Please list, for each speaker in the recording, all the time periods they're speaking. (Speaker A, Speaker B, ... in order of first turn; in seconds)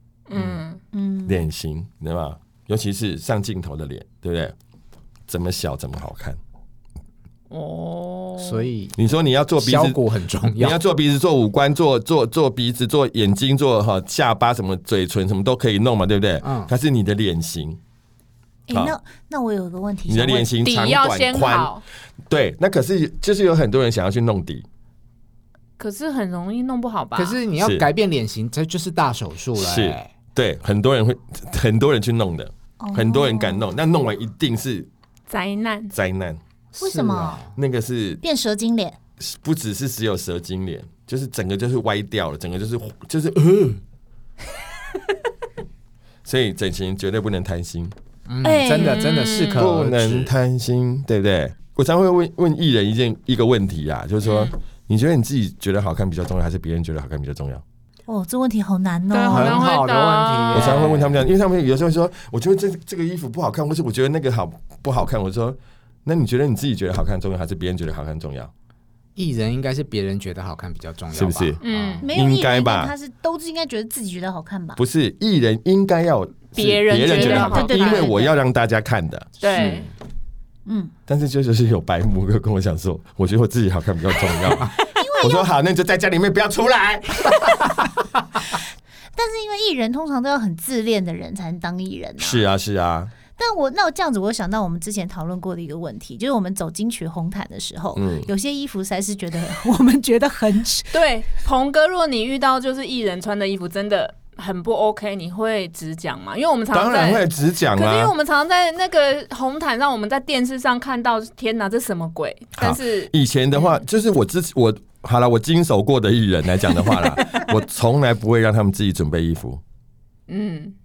Speaker A: 0.3-0.8, 7.5-8.7, 20.6-21.8, 25.8-27.4, 35.3-35.9, 48.8-49.7, 54.2-54.5, 59.1-61.0, 71.6-72.1, 76.5-78.3, 79.4-79.9, 100.9-113.8, 120.3-120.8
Speaker B: 0.9-1.4, 18.7-20.5, 32.8-33.7, 36.8-37.4, 38.2-39.0, 48.4-49.1, 58.1-59.7, 72.0-74.8, 77.0-78.3, 80.7-80.9, 84.8-85.5, 89.2-92.5, 93.4-101.0
Speaker C: 1.3-4.5, 5.3-6.4, 9.0-10.0, 10.6-17.8, 18.7-18.9, 20.1-21.7, 22.3-24.6, 27.6-27.9, 29.6-34.9, 35.9-36.4, 37.5-38.2, 39.2-43.8, 46.2-47.9, 49.5-57.6, 60.5-68.5, 71.2-71.6, 72.1-72.9, 74.8-79.8, 81.1-87.5, 92.2-93.1, 98.0-98.3, 106.7-108.1, 112.6-119.6
Speaker D: 8.4-9.0, 9.6-10.8, 16.4-16.7, 27.2-30.1, 36.8-37.5, 48.3-50.3, 59.3-61.2, 69.2-72.0